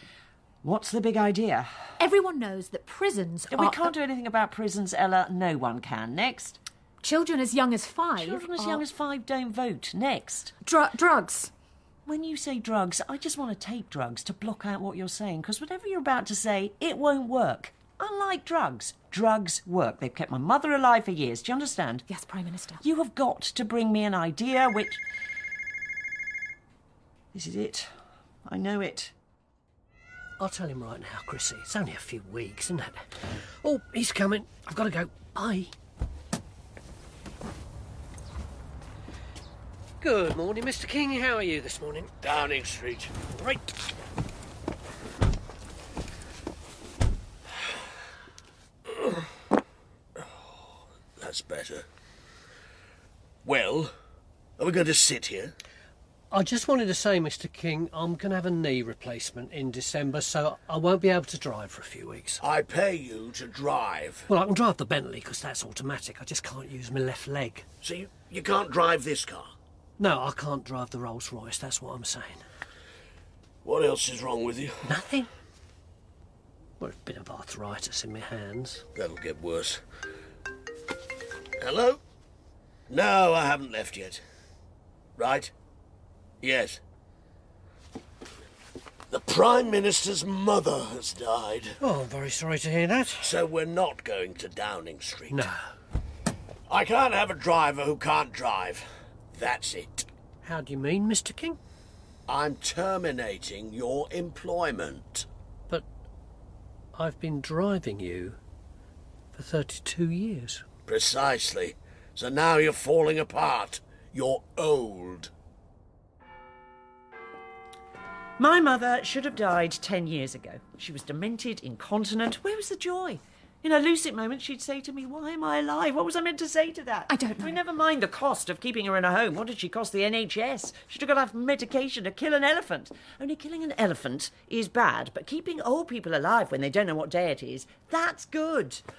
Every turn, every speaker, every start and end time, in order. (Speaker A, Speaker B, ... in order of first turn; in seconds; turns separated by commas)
Speaker A: 0.6-1.7, Speaker B: 2.0-3.9, Speaker A: 3.5-6.6, Speaker B: 7.0-8.8, Speaker A: 8.2-10.5, Speaker B: 10.6-11.5, Speaker A: 12.1-22.1, Speaker B: 22.1-22.8, Speaker A: 22.8-25.0, Speaker A: 27.3-27.9, Speaker A: 28.5-29.1, Speaker C: 30.4-35.7, Speaker C: 40.0-42.1, Speaker D: 42.2-43.1, Speaker C: 43.3-43.7, Speaker D: 51.2-51.9, Speaker D: 53.5-53.9, Speaker D: 54.6-55.5, Speaker C: 56.3-62.4, Speaker D: 62.4-64.3, Speaker C: 64.3-67.7, Speaker D: 67.8-69.5, Speaker C: 70.0-72.4, Speaker D: 73.6-74.9, Speaker C: 74.8-75.3, Speaker C: 76.8-78.8, Speaker D: 79.0-79.8, Speaker D: 81.6-82.0, Speaker D: 82.9-84.2, Speaker D: 85.2-85.5, Speaker D: 86.4-86.8, Speaker D: 89.1-91.8, Speaker C: 91.8-93.3, Speaker D: 93.2-95.5, Speaker C: 95.3-95.7, Speaker D: 96.7-100.1, Speaker C: 100.4-101.6, Speaker D: 102.3-105.3, Speaker C: 106.9-108.4, Speaker C: 109.3-110.7, Speaker D: 110.9-115.3, Speaker A: 118.4-138.8, Speaker B: 127.1-127.6